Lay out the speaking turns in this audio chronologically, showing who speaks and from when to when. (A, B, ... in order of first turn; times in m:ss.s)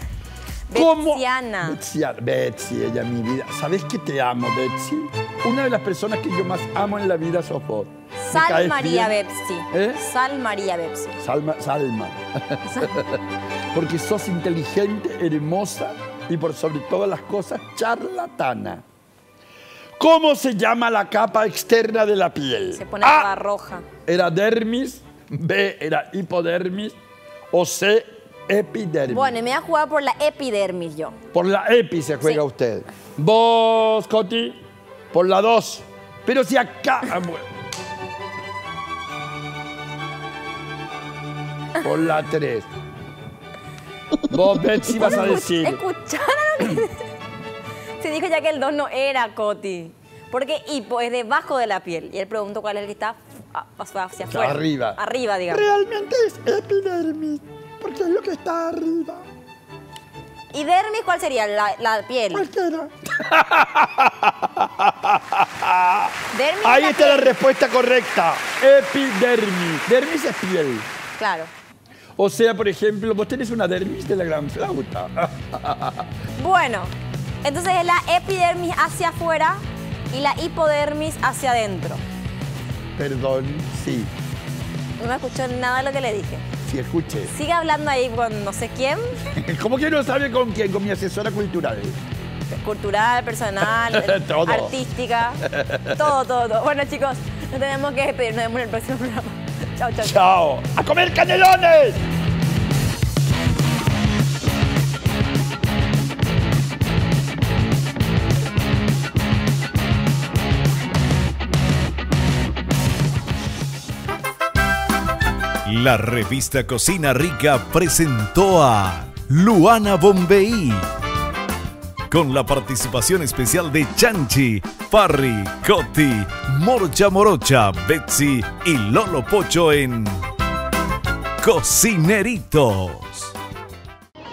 0:00.7-0:01.8 A
0:00.7-0:09.2 B
0:08.2-0:11.2 A
0:09.7-0:10.0 B
0:11.2-0:13.2 B
0:12.6-0:13.0 A
0:13.7-0:18.8 B
0:20.0-0:23.3 B
0:22.7-0:23.8 A
0:24.0-0:27.0 B
0:27.5-0:29.3 B
0:29.1-0:31.2 A
0:31.3-0:34.6 B
0:35.1-0:37.5 B
0:41.8-0:42.7 B
0:44.2-0:45.8 B
0:44.9-0:47.0 A
0:48.0-0:55.7 A
0:54.3-0:59.2 B
1:00.5-1:02.5 A
1:02.3-1:06.1 B
1:06.3-1:07.4 A
1:06.6-1:10.8 B
1:11.2-1:11.5 A
1:12.2-1:16.1 B
1:16.4-1:16.9 A
1:17.4-1:22.0 A
1:23.0-1:24.1 B
1:25.0-1:26.4 A
1:26.6-1:27.3 B
1:27.3-1:29.2 A
1:29.3-1:32.0 B
1:32.5-1:40.2 A
1:33.8-1:34.7 B
1:35.4-1:36.1 B
1:40.0-1:42.0 B
1:55.6-2:00.8 C
2:02.1-2:10.2 C
2:11.4-2:13.3 C